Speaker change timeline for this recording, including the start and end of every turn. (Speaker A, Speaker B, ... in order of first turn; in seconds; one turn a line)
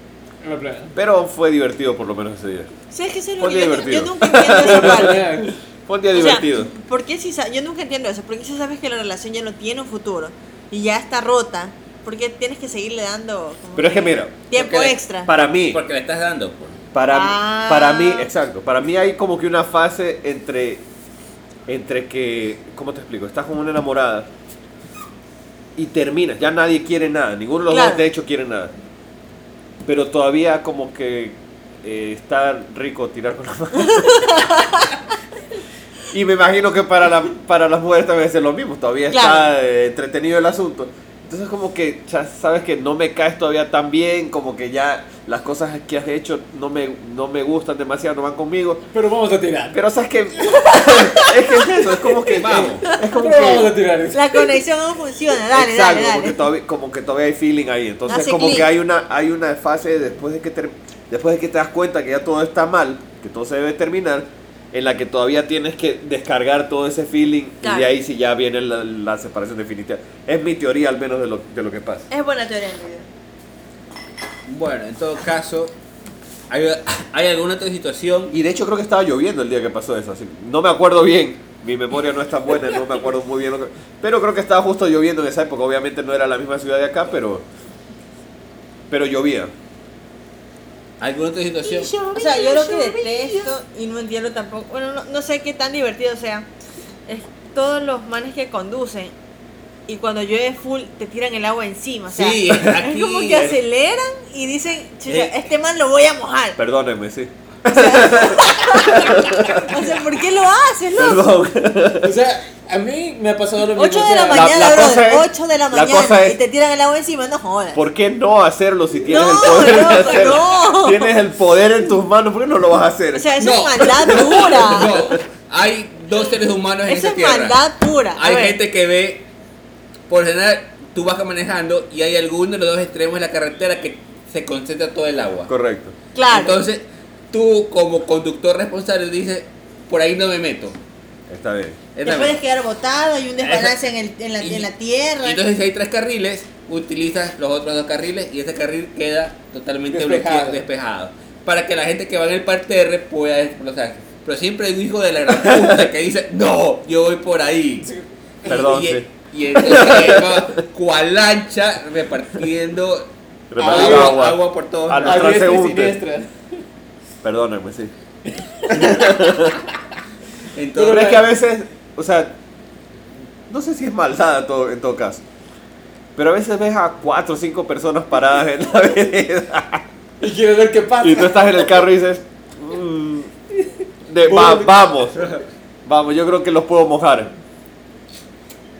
Speaker A: 0.4-0.9
Speaker B: 0.9-2.7
Speaker C: 2.9-5.2
Speaker B: 3.4-6.7
Speaker A: 4.4-5.5
Speaker C: 6.1-15.3
Speaker B: 13.7-14.3
Speaker D: 14.5-15.0
Speaker B: 15.3-15.8
Speaker D: 15.7-16.8
Speaker B: 16.9-20.8
Speaker C: 17.1-18.3
Speaker B: 21.7-24.3
Speaker B: 25.8-28.7
Speaker C: 27.7-28.1
Speaker B: 29.8-34.6
Speaker C: 33.8-34.9
Speaker B: 36.1-48.9
Speaker C: 39.1-39.5
Speaker A: 48.9-49.8
Speaker B: 49.7-53.7
Speaker C: 50.7-51.4
Speaker D: 52.3-52.9
Speaker A: 52.4-54.5
Speaker C: 54.1-56.4
Speaker B: 55.5-72.1
Speaker C: 58.1-58.7
Speaker C: 67.6-67.9
Speaker C: 72.1-73.1
Speaker D: 74.5-75.7
Speaker D: 76.5-78.3
Speaker B: 78.3-87.4
Speaker B: 88.9-89.5
Speaker D: 91.0-92.5
Speaker C: 91.6-96.5
Speaker C: 97.1-99.1
Speaker C: 99.9-106.6
Speaker D: 102.1-103.5
Speaker D: 105.1-105.3
Speaker B: 106.6-109.9
Speaker C: 107.7-111.3
Speaker B: 111.0-112.2
Speaker A: 112.0-114.7
Speaker C: 113.7-117.8
Speaker B: 114.3-116.4
Speaker B: 117.7-125.1
Speaker C: 119.0-121.1
Speaker C: 123.1-125.1
Speaker D: 123.4-127.6
Speaker C: 126.9-128.6
Speaker D: 128.1-129.3
Speaker D: 130.1-135.5
Speaker B: 135.5-135.9
Speaker C: 136.1-136.6
Speaker D: 136.3-140.8
Speaker B: 141.3-141.8
Speaker D: 141.9-142.4
Speaker C: 142.0-145.4
Speaker D: 143.4-143.8
Speaker D: 144.4-144.7
Speaker D: 145.2-157.9
Speaker A: 149.9-150.6
Speaker B: 155.3-155.9
Speaker A: 157.8-158.8
Speaker B: 158.4-160.6
Speaker D: 158.4-165.4
Speaker B: 163.5-166.0
Speaker A: 163.6-164.2
Speaker A: 165.0-166.6
Speaker B: 167.2-167.9
Speaker A: 168.3-169.6
Speaker B: 168.7-169.6
Speaker D: 170.6-171.2
Speaker A: 170.8-171.2
Speaker B: 170.8-172.4
Speaker B: 173.5-175.2
Speaker B: 176.2-179.8
Speaker A: 180.2-181.8
Speaker B: 181.0-183.3
Speaker B: 184.1-187.3
Speaker A: 184.2-185.0